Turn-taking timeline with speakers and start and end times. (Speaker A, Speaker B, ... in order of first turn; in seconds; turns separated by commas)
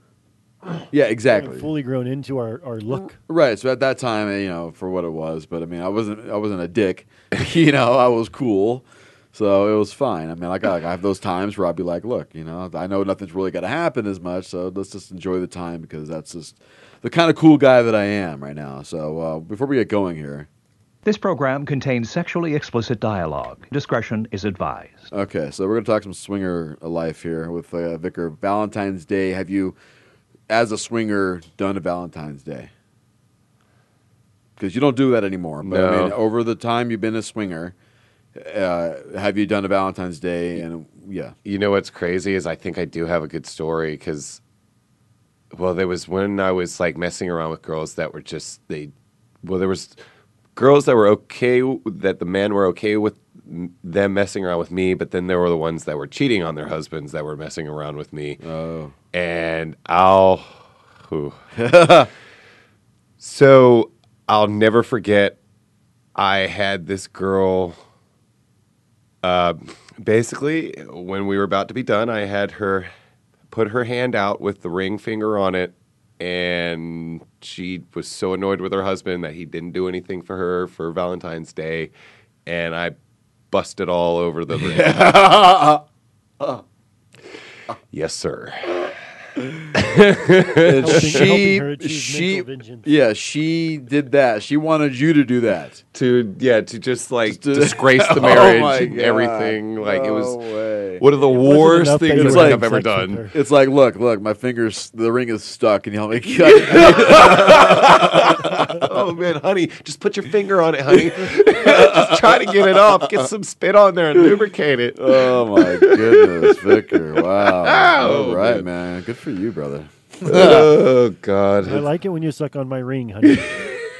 Speaker A: 0.9-1.7, Speaker B: 1.3-3.2, Speaker A: 3.2-20.5, Speaker C: 21.0-25.1, Speaker A: 25.1-29.8, Speaker A: 30.5-32.7, Speaker A: 34.6-37.7, Speaker D: 35.6-36.2, Speaker A: 38.4-41.3, Speaker D: 41.4-44.4, Speaker D: 45.5-48.9, Speaker D: 49.4-50.0, Speaker D: 50.5-58.4, Speaker A: 58.4-58.9, Speaker D: 59.1-61.3, Speaker A: 61.5-62.1, Speaker D: 63.2-65.4, Speaker D: 66.2-67.8, Speaker D: 69.2-72.9, Speaker D: 73.5-81.9, Speaker D: 82.5-83.0, Speaker D: 83.5-85.0, Speaker A: 84.5-85.8, Speaker D: 87.9-89.0, Speaker D: 89.7-91.2, Speaker A: 90.6-95.8, Speaker B: 90.8-92.9, Speaker D: 95.9-100.5, Speaker A: 97.2-101.0, Speaker D: 101.0-103.2, Speaker B: 101.3-103.3, Speaker A: 102.0-102.6, Speaker A: 103.3-108.2, Speaker D: 106.7-118.7, Speaker A: 115.0-120.7, Speaker D: 120.2-121.9, Speaker B: 121.6-123.7